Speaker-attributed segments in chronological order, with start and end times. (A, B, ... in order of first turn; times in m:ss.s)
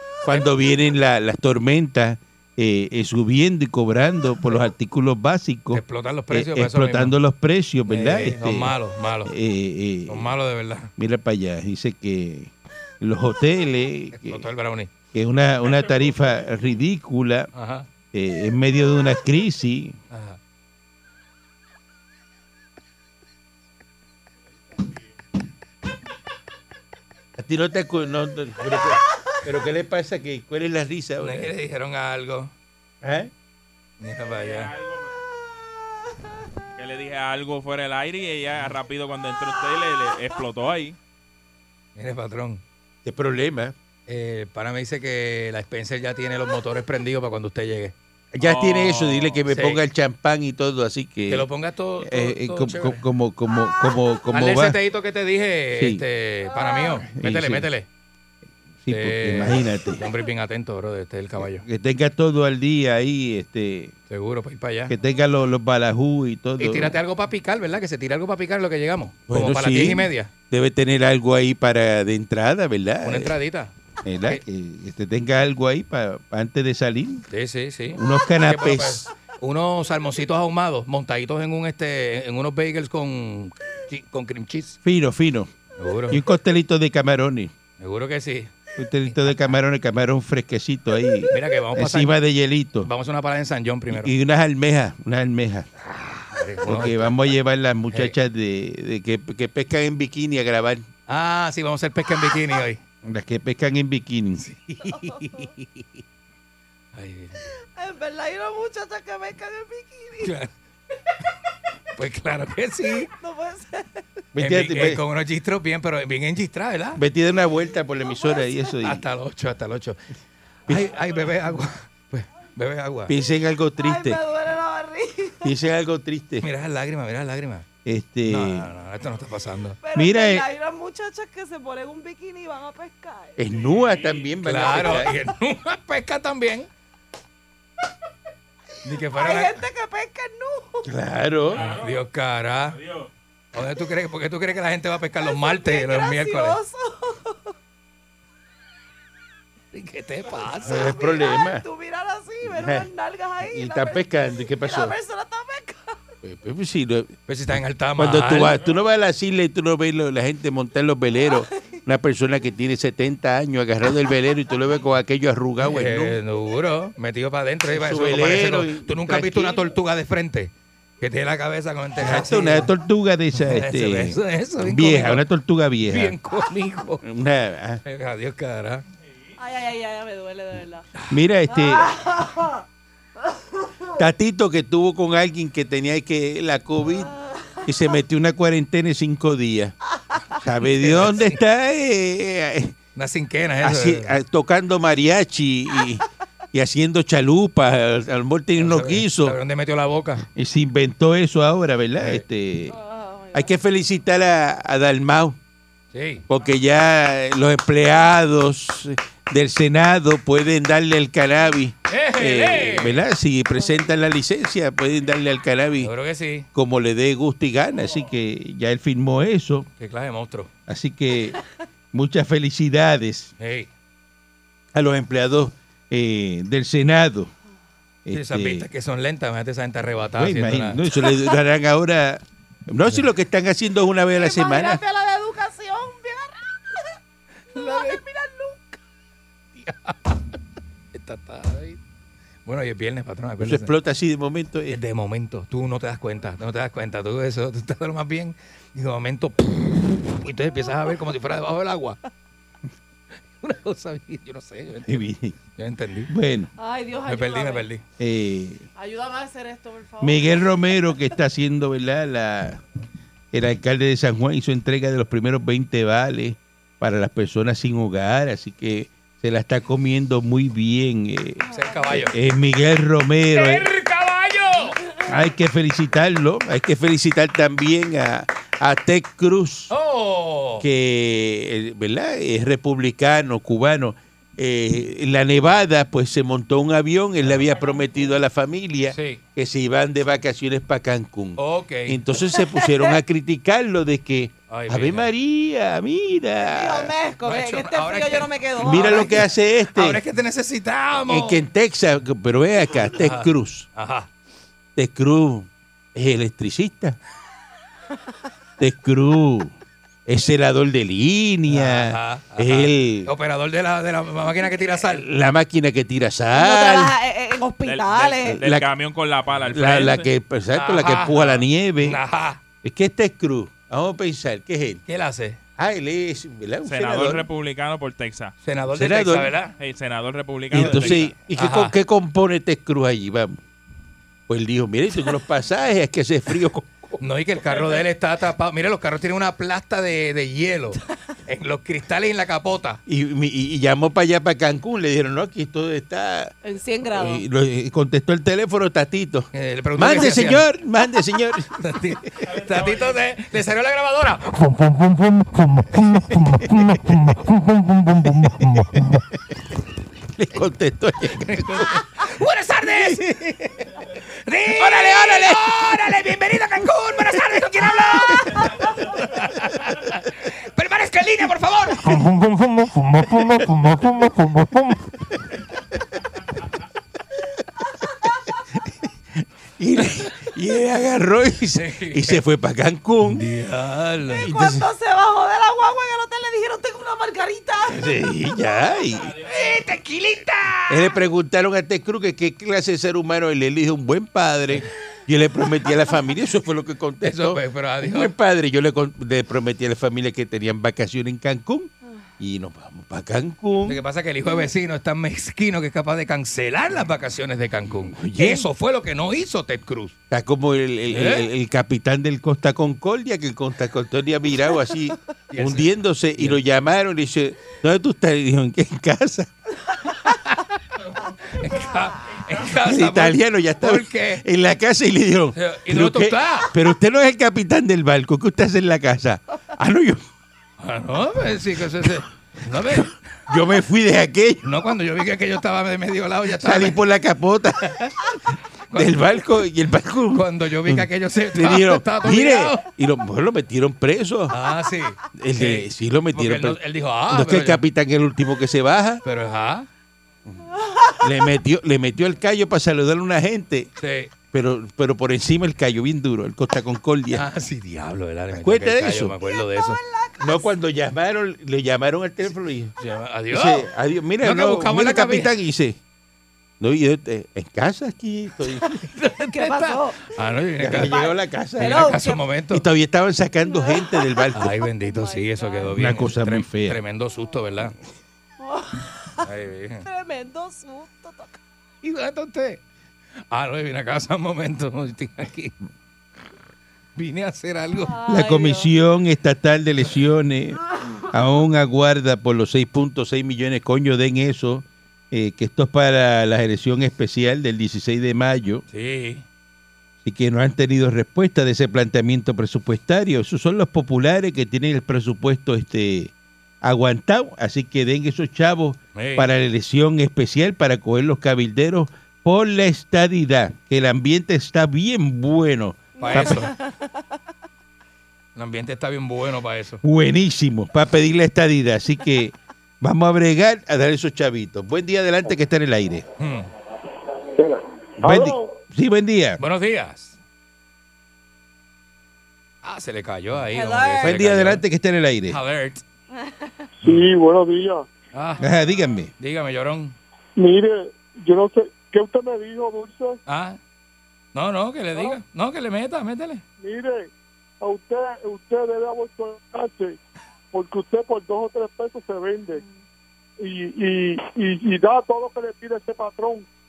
0:00.2-0:10.3 A
0:05.7-0:07.1 B
0:07.9-0:09.3 B
0:10.1-0:10.9 B
0:11.0-0:14.5 A
0:14.1-0:14.9 B
0:15.1-0:17.5 A
0:17.5-0:17.9 B
0:18.1-0:20.0 A
0:20.1-0:20.4 B
0:27.4-0:31.5 A
0:31.2-0:32.5 B
0:33.0-0:33.3 A
0:34.0-0:34.7 B
0:34.3-0:35.1 C
0:36.8-0:41.0 C
0:42.0-0:42.6 B
0:43.0-0:43.8 A
0:44.1-0:47.9 B
0:48.3-0:51.5 A
0:48.4-0:49.4 C
0:49.5-0:49.8 B
0:51.3-0:53.0 B
0:52.0-0:54.8 A
0:54.3-0:57.9 B
0:55.8-0:56.0 A
0:56.6-0:57.0 D
0:57.1-0:57.7 A
0:58.8-1:00.1 A
0:58.9-1:01.6 B
1:01.4-1:04.0 A
1:04.1-1:04.9 B
1:04.9-1:07.0 A
1:06.6-1:10.3 B
1:09.3-1:13.3 A
1:13.0-1:13.7 B
1:14.0-1:17.3 A
1:17.3-1:24.8 B
1:17.9-1:19.1 A
1:24.8-1:25.5 A
1:25.8-1:26.2 B
1:26.1-1:27.5 A
1:27.8-1:29.4 B
1:28.8-1:32.9 A
1:31.3-1:32.1 B
1:32.8-1:34.1 B
1:33.9-1:35.7 A
1:35.9-1:37.2 B
1:36.6-1:40.9 A
1:41.1-1:42.8 B
1:43.0-1:44.4 A
1:44.4-1:45.4 B
1:45.0-1:45.3 D
1:46.9-1:47.4 B
1:47.8-1:50.3 D
1:50.2-1:50.5 B
1:51.9-1:53.1 B
1:53.1-1:54.0 D
1:54.3-1:55.0 A
1:54.4-1:57.0 B
1:57.0-1:59.0 A
1:58.2-1:58.7 D
1:58.8-2:00.0 B
2:00.7-2:03.1 B
2:03.1-2:04.2 A
2:03.8-2:05.5 D
2:05.4-2:06.5 A
2:06.4-2:07.7 B
2:07.8-2:08.7 A
2:08.2-2:09.8 B
2:09.8-2:13.4 D
2:09.9-2:10.5 A
2:13.4-2:15.2 A
2:13.6-2:14.3 C
2:14.4-2:16.7 B
2:18.8-2:19.6 B
2:19.1-2:20.9 D
2:20.8-2:21.6 A
2:21.5-2:22.0 C
2:21.6-2:22.8 B
2:22.7-2:23.1 C
2:23.5-2:26.6 B
2:25.2-2:27.5 D
2:29.7-2:30.8 B
2:30.6-2:36.1 D
2:30.6-2:31.6 A
2:32.4-2:32.9 A
2:33.4-2:34.9 A
2:36.2-2:37.2 A
2:37.3-2:38.6 B
2:38.0-2:46.2 A
2:41.3-2:41.8 D
2:45.6-2:52.7 B
2:47.7-2:49.7 A
2:52.0-2:56.2 A
2:53.4-2:55.2 B
2:55.8-2:57.0 B
2:57.0-2:57.8 A
2:57.9-2:58.8 B
2:59.4-3:00.9 D
3:01.1-3:01.9 A
3:01.5-3:02.6 D
3:04.0-3:07.1 A
3:07.2-3:07.6 D
3:07.6-3:09.8 A
3:10.4-3:12.8 A
3:10.8-3:11.4 B
3:13.0-3:14.1 B
3:13.6-3:19.4 A
3:18.6-3:20.3 B
3:20.4-3:22.8 A
3:22.0-3:22.2 B
3:22.7-3:23.6 D
3:23.3-3:25.4 A
3:25.9-3:26.2 B
3:26.3-3:35.9 A
3:31.9-3:33.0 B
3:35.8-3:36.5 B
3:36.5-3:39.7 A
3:39.8-3:40.5 B
3:40.7-3:41.4 A
3:41.9-3:43.3 A
3:43.4-3:43.7 B
3:44.7-3:47.3 A
3:48.0-3:48.7 A
3:48.1-3:50.8 B
3:50.2-3:54.8 A
3:51.0-3:51.4 D
3:54.2-3:56.8 D
3:57.6-3:58.0 B
3:57.6-3:58.7 D
3:59.6-4:00.2 B
4:00.9-4:01.8 B
4:02.5-4:03.7 B
4:03.4-4:04.8 A
4:04.7-4:12.0 B
4:13.4-4:16.1 B
4:14.9-4:15.4 A
4:16.1-4:16.5 A
4:16.6-4:17.7 D
4:17.1-4:17.8 B
4:18.0-4:18.7 A
4:18.8-4:20.9 D
4:20.0-4:22.6 A
4:23.3-4:33.7 A
4:31.5-4:31.8 D
4:31.5-4:32.2 B
4:33.3-4:34.8 B
4:35.1-4:39.7 A
4:39.7-4:40.6 B
4:40.6-4:56.9 A
4:48.9-4:49.2 B
4:51.4-4:52.0 B
4:52.3-4:53.0 D
4:54.5-4:55.1 B
4:56.4-4:59.1 D
4:57.2-4:59.2 B
4:58.6-5:00.0 A
4:59.8-5:01.4 B
5:01.1-5:03.7 A
5:02.9-5:04.1 B
5:04.8-5:07.0 A
5:08.6-5:09.5 A
5:10.1-5:13.1 A
5:11.5-5:15.0 B
5:14.8-5:16.9 A
5:16.3-5:18.4 D
5:17.6-5:20.1 C
5:18.3-5:18.7 A
5:19.5-5:22.0 A
5:20.5-5:22.4 B
5:22.6-5:24.8 A
5:24.9-5:25.4 B
5:25.6-5:27.3 A
5:26.6-5:28.3 C
5:28.4-5:29.6 B
5:28.7-5:29.4 A
5:29.6-5:31.2 C
5:30.5-5:33.4 A
5:30.6-5:31.7 B
5:34.3-5:37.0 A
5:37.0-5:42.8 B
5:42.9-5:46.3 A
5:46.4-5:47.2 D
5:46.9-5:51.7 A
5:49.3-5:50.4 B
5:51.6-5:58.6 B
5:56.0-5:56.9 A
6:00.2-6:01.8 A
6:01.2-6:03.1 B
6:02.6-6:03.6 A
6:04.2-6:14.8 B
6:04.5-6:05.9 A
6:07.9-6:08.5 A
6:13.2-6:13.8 A
6:18.5-6:23.3 A
6:21.5-6:22.2 B
6:23.0-6:24.3 B
6:24.2-6:24.7 A
6:24.2-6:27.9 D
6:27.7-6:29.2 A
6:29.2-6:31.0 B
6:30.7-6:43.8 A
6:37.0-6:38.1 B
6:43.7-6:50.0 B
6:47.9-6:48.5 A
6:50.1-6:59.3 A
6:50.9-6:51.3 B
6:55.3-6:56.4 B
7:00.1-7:00.5 B
7:01.3-7:04.2 B
7:02.6-7:10.0 A
7:05.4-7:06.5 B
7:10.6-7:13.0 B
7:12.6-7:14.4 A
7:14.4-7:16.8 B
7:16.4-7:17.9 A
7:18.7-7:19.1 B
7:18.7-7:24.4 A
7:20.1-7:22.6 B
7:24.3-7:27.6 B
7:25.2-7:29.0 A
7:29.0-7:29.7 B
7:30.6-7:31.0 D
7:31.0-7:33.7 A
7:33.8-7:34.1 B
7:34.3-7:37.2 A
7:37.1-7:39.8 B
7:38.3-7:39.1 A
7:39.2-7:40.5 D
7:40.2-7:42.8 A
7:42.8-7:43.7 B
7:43.3-7:45.8 A
7:44.2-7:45.3 B
7:46.6-7:48.9 A
7:48.5-7:51.0 B
7:49.3-7:50.1 D
7:50.6-7:52.0 A
7:50.8-7:52.2 D
7:51.6-7:52.6 B
7:52.5-7:54.6 A
7:53.5-7:55.7 D
7:54.4-7:57.7 B
7:55.7-7:56.8 A
7:58.4-7:59.3 D
7:59.2-7:59.9 B
7:59.8-8:01.4 D
8:01.8-8:02.6 B
8:03.3-8:05.5 B
8:07.0-8:08.0 B
8:07.8-8:08.7 D
8:08.1-8:18.6 A
8:18.7-8:19.2 B
8:20.0-8:36.5 A
8:29.0-8:29.3 B
8:36.0-8:37.0 D
8:36.0-8:36.5 B
8:38.4-8:39.8 B
8:39.8-8:46.1 A
8:46.2-8:46.5 B
8:48.0-8:49.4 A
8:48.1-8:48.4 E
8:49.4-8:50.2 B
8:52.6-8:54.6 B
8:53.5-8:54.2 D
8:54.0-8:55.4 A
8:55.3-8:55.8 B
8:56.2-8:56.5 D
8:56.8-8:57.9 E
8:58.1-8:58.5 B
8:58.4-8:59.1 A
8:59.2-9:00.0 B
9:00.4-9:03.2 E
9:03.3-9:03.6 B
9:04.4-9:06.4 B
9:06.6-9:07.1 E
9:07.6-9:10.0 E
9:10.5-9:12.6 E
9:13.4-9:16.5 E